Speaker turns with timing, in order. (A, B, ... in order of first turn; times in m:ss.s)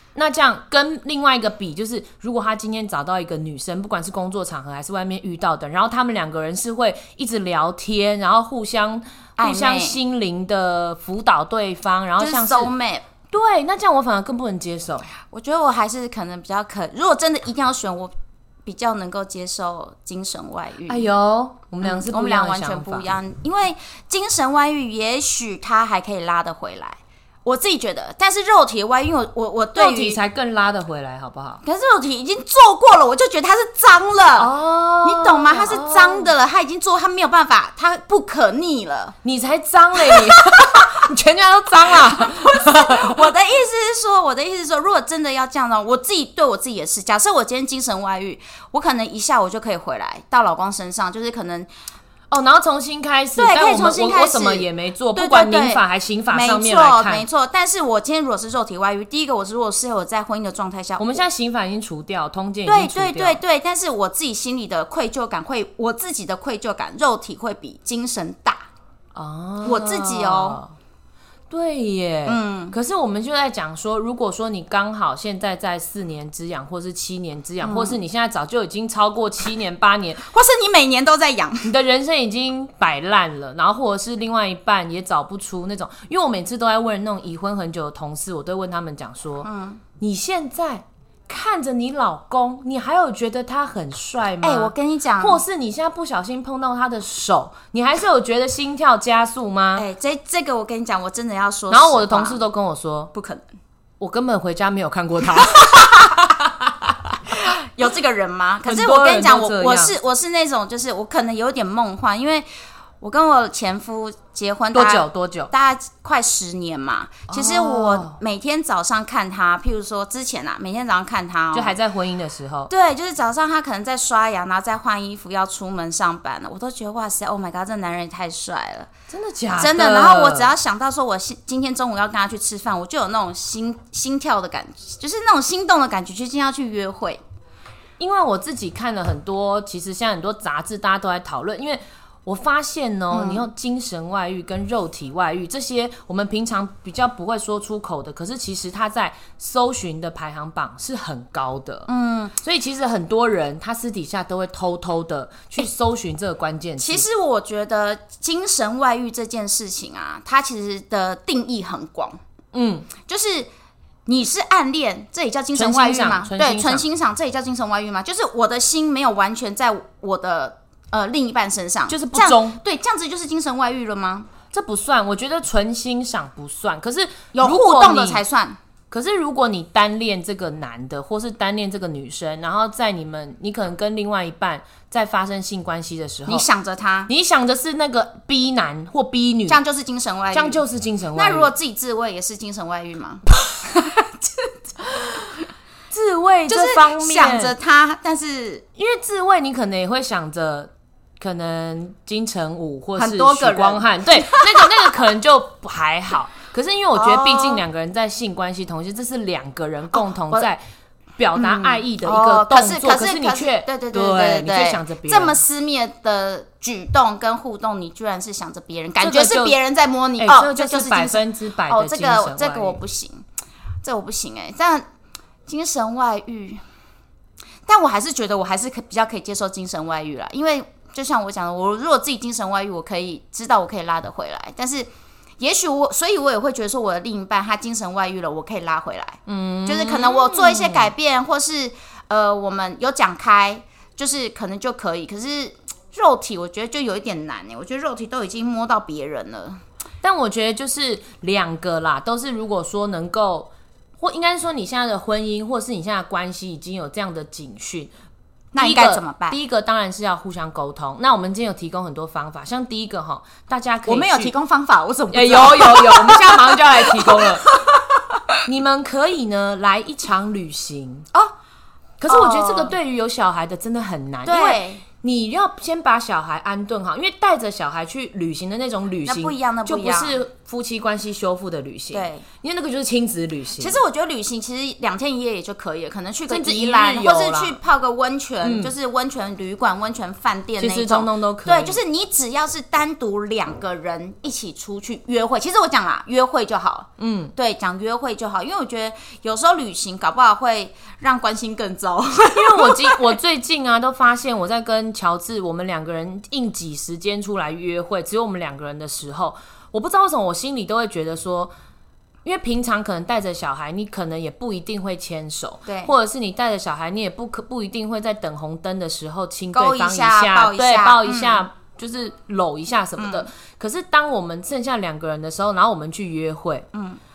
0:00.1-0:12.7 A
0:09.4-0:10.0 B
0:12.2-0:13.1 B
0:13.3-0:15.1 A
0:15.3-0:18.1 B
0:18.6-0:21.0 B
0:20.9-0:23.1 A
0:21.8-0:30.2 B
0:29.8-0:31.6 A
0:31.6-0:34.5 B
0:34.4-0:36.3 A
0:35.0-0:39.2 B
0:39.2-0:43.2 A
0:40.0-0:40.9 B
0:41.8-0:51.7 B
0:52.3-0:57.2 A
0:53.4-1:01.2 B
1:01.0-1:03.4 A
1:02.6-1:08.6 B
1:09.1-1:10.7 A
1:09.6-1:10.6 B
1:11.5-1:20.2 A
1:12.2-1:12.7 B
1:17.6-1:18.0 B
1:20.2-1:21.7 B
1:21.6-1:39.8 A
1:29.4-1:29.8 B
1:34.4-1:35.4 B
1:39.8-1:42.4 B
1:41.7-1:43.1 A
1:43.1-1:43.4 B
1:44.0-1:47.2 A
1:45.4-1:45.8 B
1:47.3-1:52.5 B
1:48.6-1:49.9 A
1:53.0-2:01.7 B
1:54.7-1:55.5 A
1:57.3-1:58.2 A
2:01.5-2:02.7 A
2:02.7-2:08.9 B
2:09.1-2:10.5 A
2:09.6-2:17.2 B
2:18.0-2:37.0 A
2:23.1-2:23.4 B
2:31.9-2:32.3 B
2:36.8-2:42.2 B
2:42.5-2:42.9 A
2:43.0-2:43.5 B
2:44.0-2:54.3 B
2:45.5-2:46.8 A
2:51.9-2:52.6 A
2:54.5-2:58.2 A
2:57.3-2:58.6 B
2:58.9-3:06.4 A
3:06.3-3:07.1 B
3:07.1-3:09.6 A
3:09.5-3:10.6 B
3:10.3-3:11.5 A
3:11.1-3:15.4 B
3:15.9-3:17.5 A
3:16.5-3:18.6 B
3:18.8-3:30.6 A
3:23.0-3:25.0 B
3:26.9-3:27.6 B
3:29.9-3:30.5 B
3:31.2-3:35.4 A
3:31.4-3:43.2 B
3:39.0-3:39.6 A
3:40.2-3:42.8 A
3:43.8-3:44.8 B
3:45.5-3:46.6 B
3:47.6-4:09.6 B
3:59.3-4:00.9 A
4:10.0-4:17.9 A
4:18.5-4:19.4 B
4:18.6-4:24.3 A
4:23.8-4:28.4 B
4:25.1-4:27.5 A
4:28.4-4:31.1 A
4:32.0-4:43.8 A
4:32.1-4:32.7 B
4:34.2-4:34.8 B
4:39.0-4:40.2 B
4:41.9-4:42.2 B
4:43.6-5:03.1 B
4:46.3-4:47.6 A
4:48.4-4:48.7 A
4:50.6-4:51.8 A
4:57.0-4:57.3 A
5:02.3-5:11.5 A
5:12.2-5:26.7 A
5:15.6-5:15.9 B
5:19.5-5:21.4 B
5:23.0-5:23.2 B
5:26.7-5:27.0 B